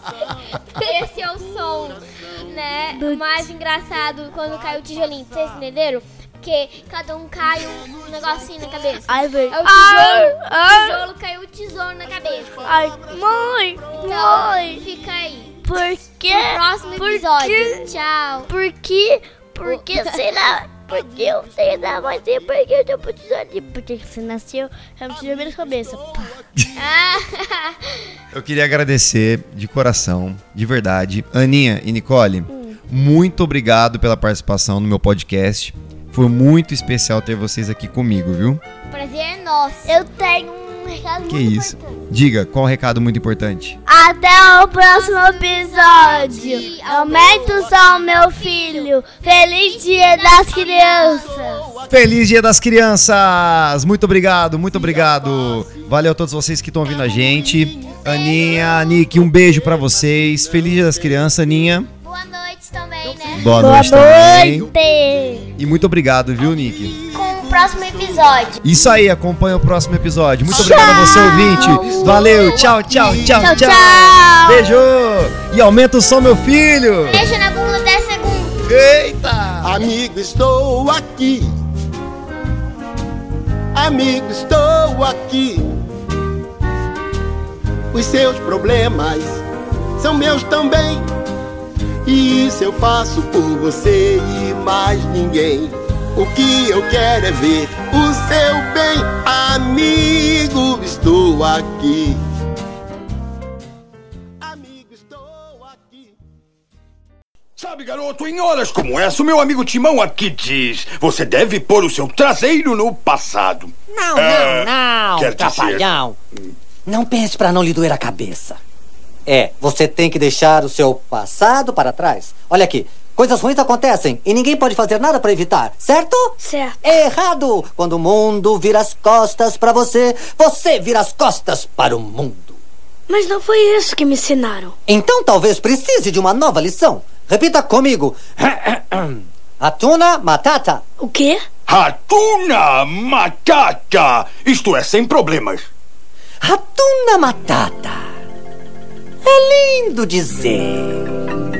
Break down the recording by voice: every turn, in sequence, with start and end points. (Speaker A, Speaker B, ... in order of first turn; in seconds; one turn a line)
Speaker A: 0.7-12.7
Speaker B: 2.9-3.5
Speaker B: 9.1-11.0
Speaker B: 12.6-14.8
Speaker A: 13.9-15.8
Speaker B: 15.7-17.8
Speaker A: 16.3-18.5
Speaker B: 18.5-26.3
Speaker A: 19.6-20.2
Speaker A: 26.8-28.1
Speaker C: 28.3-38.6
Speaker B: 32.5-32.8
Speaker A: 38.9-40.1
Speaker B: 39.9-42.0
Speaker C: 41.3-43.8
Speaker B: 43.9-51.7
Speaker A: 44.9-51.5
Speaker C: 51.9-61.9
Speaker A: 57.9-59.1
Speaker A: 62.0-63.6
Speaker C: 63.3-64.7
Speaker B: 63.5-65.5
Speaker C: 65.6-67.0
Speaker A: 67.1-68.6
Speaker C: 68.6-77.3
Speaker B: 70.5-74.6
Speaker D: 71.9-72.3
Speaker A: 77.1-78.6
Speaker C: 78.7-79.8
Speaker D: 79.6-81.5
Speaker D: 83.7-85.7
Speaker D: 87.9-89.4
Speaker D: 90.0-91.0
Speaker D: 92.0-102.2
Speaker D: 104.4-106.1
Speaker E: 107.6-115.9
Speaker F: 113.9-116.2
Speaker F: 116.9-118.6
Speaker F: 119.3-132.6
Speaker G: 126.4-126.8
Speaker G: 133.1-134.8
Speaker F: 134.9-140.8
Speaker G: 141.0-141.4
Speaker E: 141.7-145.7
Speaker F: 146.4-148.1
Speaker F: 149.2-151.1